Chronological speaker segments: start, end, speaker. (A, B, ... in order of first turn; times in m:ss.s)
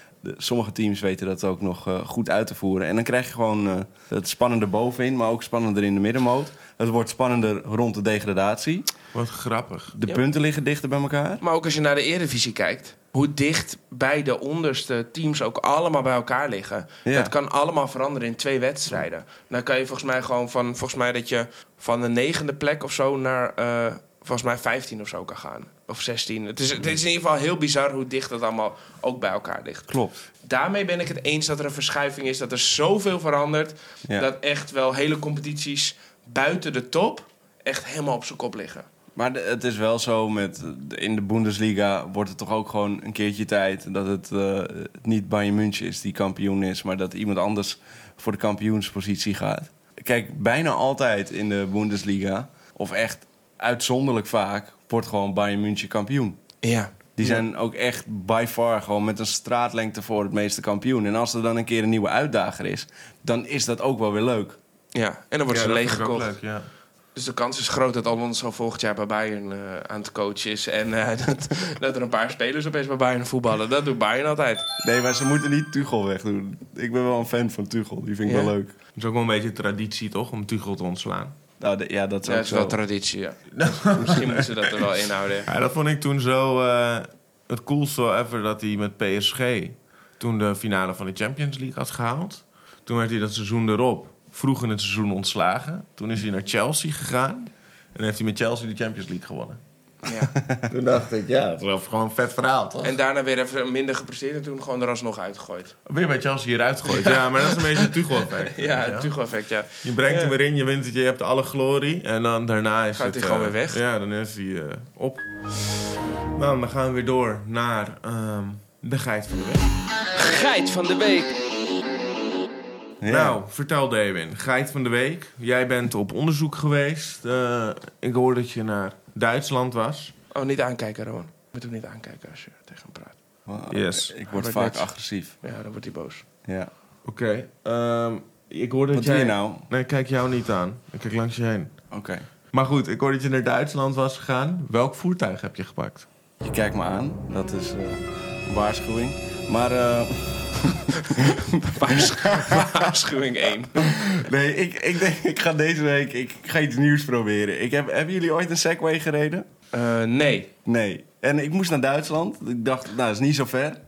0:00.2-0:08.9 A
0:09.1-0:10.0 B
0:10.0-0:11.4 A
0:11.4-0:29.9 C
0:17.0-0:17.3 A
0:29.9-0:30.2 A
0:30.4-0:38.9 C
0:39.2-0:56.4 A
0:56.6-0:57.4 C
0:57.2-1:04.6 A
1:04.9-1:06.4 C
1:05.5-1:06.7 B
1:07.2-1:14.7 C
1:14.8-1:18.8 A
1:18.2-1:18.5 C
1:19.0-1:21.4 B
1:21.6-1:22.8 A
1:22.2-1:25.5 C
1:23.5-1:24.8 B
1:25.4-1:39.6 B
1:40.0-1:40.3 C
1:40.7-1:43.0 B
1:42.8-1:45.8 C
1:45.9-1:49.1 B
1:46.8-1:50.4 C
1:49.8-1:55.2 B
1:53.0-1:53.8 C
1:56.3-1:59.7 B
2:00.2-2:01.4 C
2:03.0-2:03.4 A
2:03.1-2:10.1 B
2:10.3-2:13.2 C
2:13.5-2:15.4 A
2:13.7-2:14.5 B
2:14.3-2:14.9 C
2:15.4-2:16.2 C
2:17.1-2:21.7 B
2:18.9-2:19.7 A
2:21.9-2:22.2 A
2:22.5-2:26.1 B
2:26.4-2:32.6 A
2:31.7-2:34.2 C
2:33.8-2:39.5 A
2:39.7-2:40.5 C
2:40.6-2:43.8 A